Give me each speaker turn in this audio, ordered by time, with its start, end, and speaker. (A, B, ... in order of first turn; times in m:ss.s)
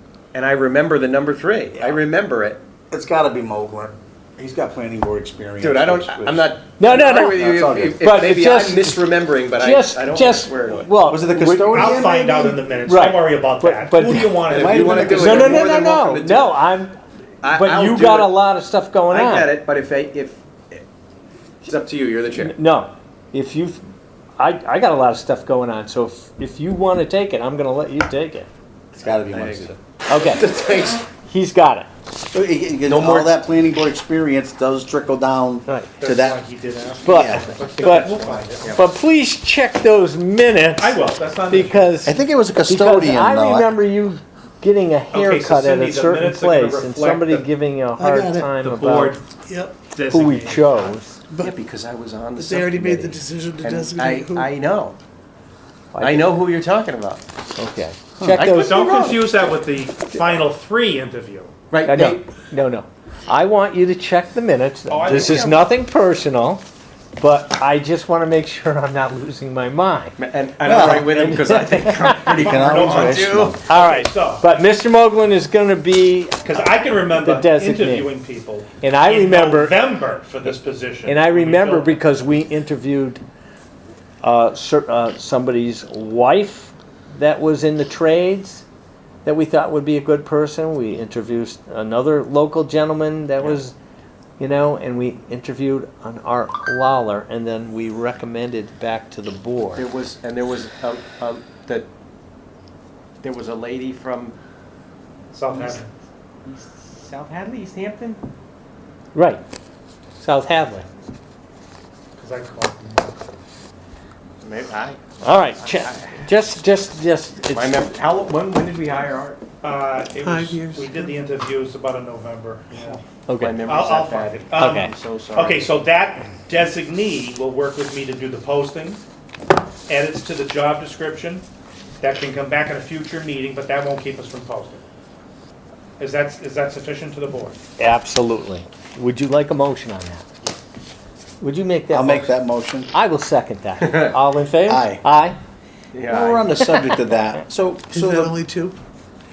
0:00.3-0:02.6 A
0:02.9-0:06.6 B
0:05.6-0:10.9 A
0:06.8-0:12.0 C
0:07.2-0:08.0 B
0:11.0-0:12.6 B
0:11.7-0:15.5 D
0:12.8-0:19.5 C
0:14.4-0:16.5 A
0:14.5-0:15.7 B
0:17.4-0:18.4 A
0:19.1-0:20.8 A
0:21.6-0:22.5 A
0:22.4-0:23.8 C
0:24.4-0:28.5 C
0:28.9-0:29.7 B
0:29.0-0:31.0 A
0:30.1-0:30.5 C
0:31.2-0:31.9 C
0:32.3-0:36.4 B
0:32.9-0:33.3 A
0:36.0-0:38.8 D
0:37.0-0:37.5 B
0:37.0-0:38.1 C
0:37.6-0:38.8 A
0:38.7-0:49.2 C
0:40.8-0:41.9 D
0:42.0-0:43.7 B
0:45.1-0:47.5 D
0:48.0-0:48.5 B
0:48.6-0:49.3 D
0:49.4-0:49.8 E
0:49.8-0:51.0 D
0:50.1-0:51.1 C
0:51.4-0:55.0 A
0:52.3-0:54.5 E
0:55.9-0:56.4 C
0:56.0-0:57.2 A
0:57.6-0:58.9 C
0:58.3-0:59.2 A
0:58.5-1:01.5 D
1:01.7-1:02.2 A
1:01.8-1:06.6 C
1:04.9-1:05.7 D
1:05.1-1:05.6 A
1:07.2-1:10.2 C
1:10.2-1:13.6 A
1:10.6-1:11.4 B
1:10.7-1:12.4 C
1:12.3-1:13.6 B
1:12.3-1:14.5 D
1:13.7-1:16.6 C
1:16.4-1:21.9 D
1:17.2-1:18.1 C
1:18.8-1:19.8 C
1:21.0-1:23.2 C
1:24.2-1:28.6 C
1:29.2-1:33.7 C
1:34.4-1:39.8 C
1:39.8-1:41.9 A
1:43.2-1:44.3 A
1:45.3-1:45.9 D
1:45.5-1:45.8 A
1:46.4-1:48.2 A
1:49.1-1:49.4 C
1:50.2-1:50.9 C
1:52.2-1:53.4 D
1:54.4-1:55.0 A
1:55.2-1:57.9 C
1:55.6-1:56.1 A
1:57.5-1:59.4 A
1:59.6-2:03.0 D
2:00.2-2:01.1 E
2:02.7-2:05.7 A
2:03.3-2:03.6 C
2:03.6-2:09.0 D
2:04.6-2:04.9 C
2:09.9-2:11.4 D
2:12.0-2:14.8 D
2:16.0-2:17.6 D
2:17.8-2:20.2 C
2:21.4-2:22.3 C
2:21.9-2:22.9 B
2:22.9-2:25.4 C
2:23.8-2:24.1 A
2:24.6-2:25.0 B
2:25.9-2:26.5 A
2:26.1-2:28.4 B
2:27.9-2:28.8 E